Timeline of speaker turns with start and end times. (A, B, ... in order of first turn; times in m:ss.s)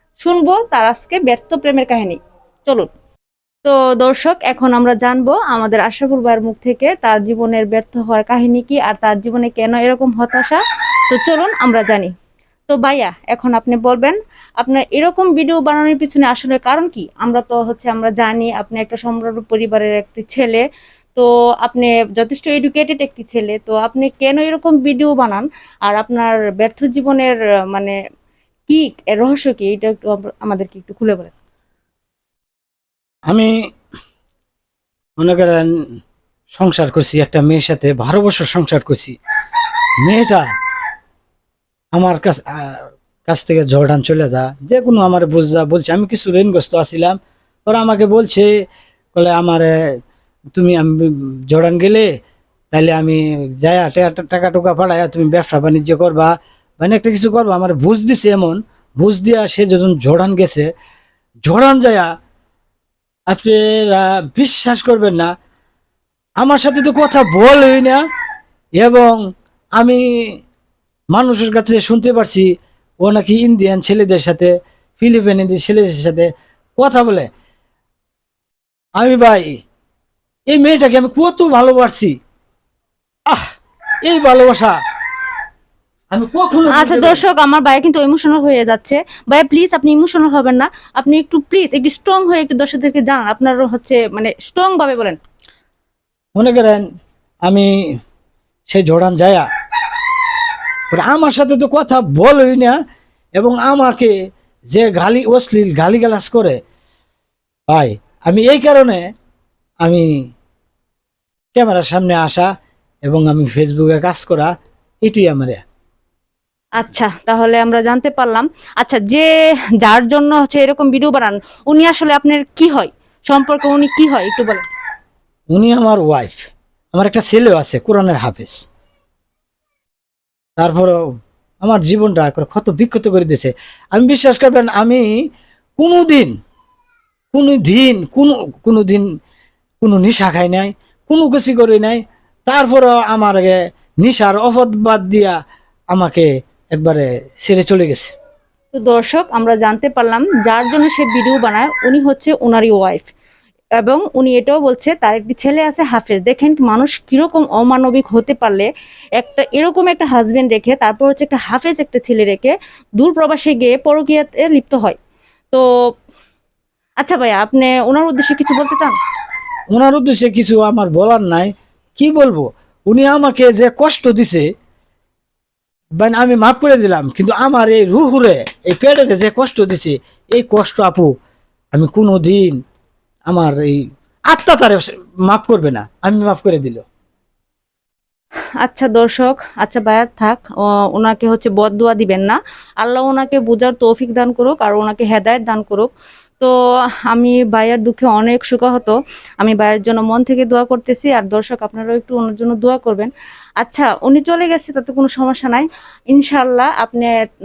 0:00.2-0:02.9 A
0:03.6-0:12.1 A
0:12.7-0:20.6 A
0:21.1-0:28.0 A
0:28.7-0:31.3 A
0:33.3-0:33.5 B
0:35.2-0:35.7 B
0:36.5-0:39.2 B
0:40.0-0:40.4 B
0:41.9-0:48.5 B
0:49.1-0:49.7 B
0:50.5-0:52.1 B
0:52.7-1:00.7 B
1:01.5-1:02.1 B
1:03.3-1:05.3 B
1:06.4-1:08.0 B
1:08.8-1:09.2 B
1:09.8-1:10.3 B
1:11.1-1:12.5 B
1:13.0-1:17.3 B
1:19.0-1:19.5 B
1:20.5-1:22.1 B
1:24.0-1:24.7 B
1:26.1-1:27.2 B
1:26.7-1:35.2 A
1:36.4-1:36.8 B
1:37.4-1:37.8 B
1:38.7-1:39.4 B
1:40.9-1:42.8 B
1:43.4-1:44.1 B
1:44.7-1:46.6 B
1:47.7-1:49.0 B
1:51.5-1:52.5 B
1:53.1-1:54.5 B
1:55.0-1:55.6 B
1:56.8-1:59.3 A
1:59.8-2:04.6 A
2:05.5-2:08.6 B
2:10.6-2:10.9 B
2:11.6-2:15.0 B
2:15.8-2:16.3 B
2:17.3-2:19.0 B
2:19.8-2:25.4 B
2:25.9-2:28.1 B
2:28.7-2:33.1 A
2:33.8-2:45.0 A
2:47.0-2:49.0 A
2:49.7-2:54.4 B
2:56.0-3:01.1 B
3:01.7-3:02.6 B
3:03.3-3:06.8 B
3:08.6-3:10.4 A
3:11.0-3:16.5 A
3:17.1-3:27.1 A